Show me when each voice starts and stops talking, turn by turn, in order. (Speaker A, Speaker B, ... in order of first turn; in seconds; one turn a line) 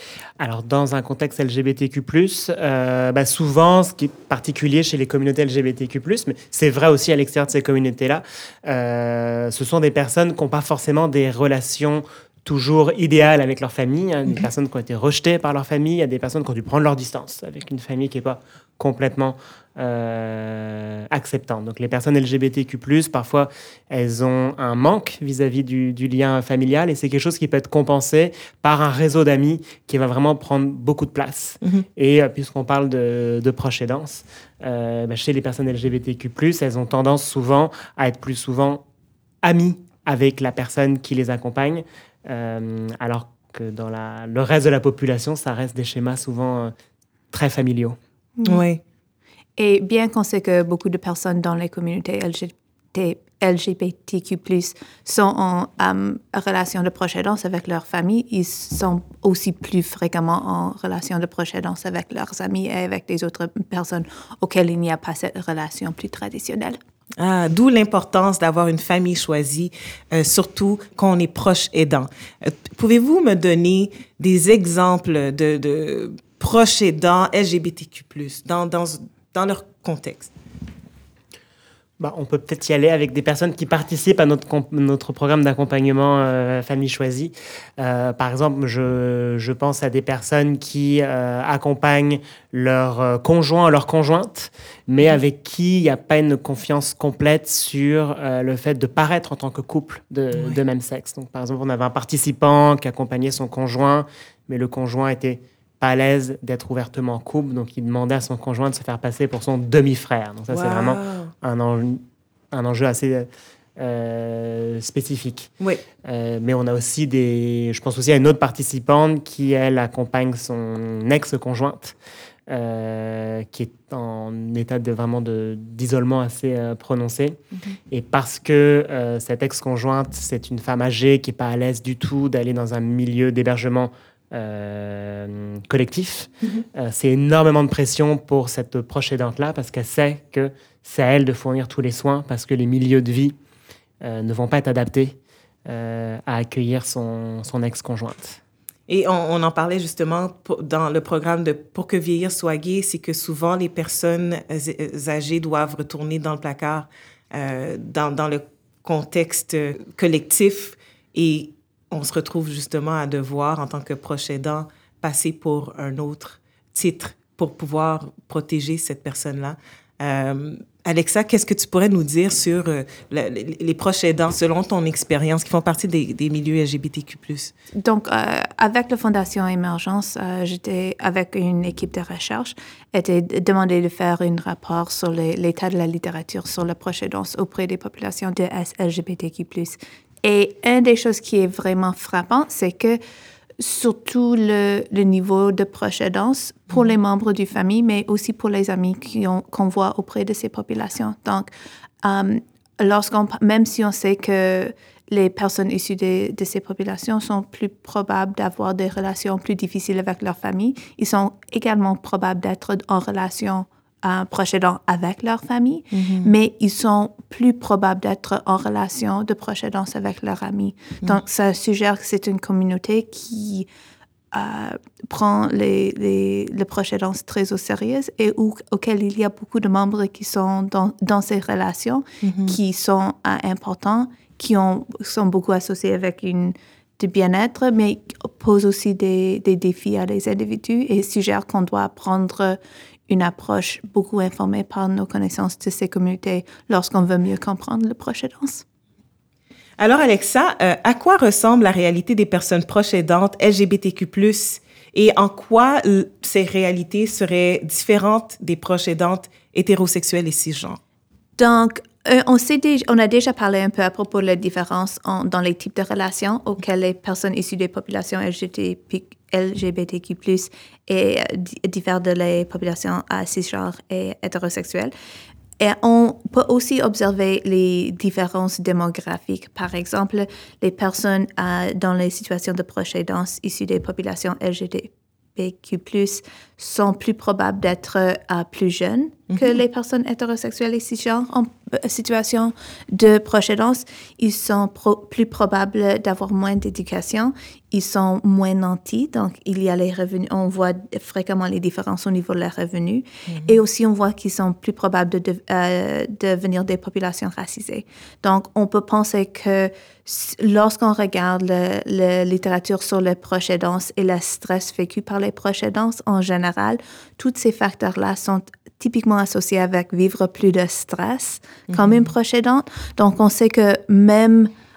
Speaker A: 0.4-38.8
Speaker A: 39.4-46.7
Speaker A: 47.3-48.0
Speaker B: 48.4-48.6
Speaker C: 48.4-48.8
Speaker B: 49.6-66.8
Speaker C: 67.2-80.3
Speaker A: 82.0-115.5
Speaker C: 110.5-111.3
Speaker A: 116.0-121.9
Speaker A: 122.5-127.4
Speaker A: 127.9-143.3
Speaker A: 144.0-148.4
Speaker C: 148.9-177.5
Speaker B: 177.8-193.0
Speaker B: 193.6-201.5
Speaker B: 202.0-223.7
Speaker C: 215.9-216.3
Speaker B: 224.3-248.6
Speaker C: 232.2-232.6
Speaker C: 249.8-260.8
Speaker B: 261.4-274.9
Speaker B: 275.6-324.5
Speaker C: 289.3-289.6
Speaker C: 303.3-303.6
Speaker C: 321.7-322.1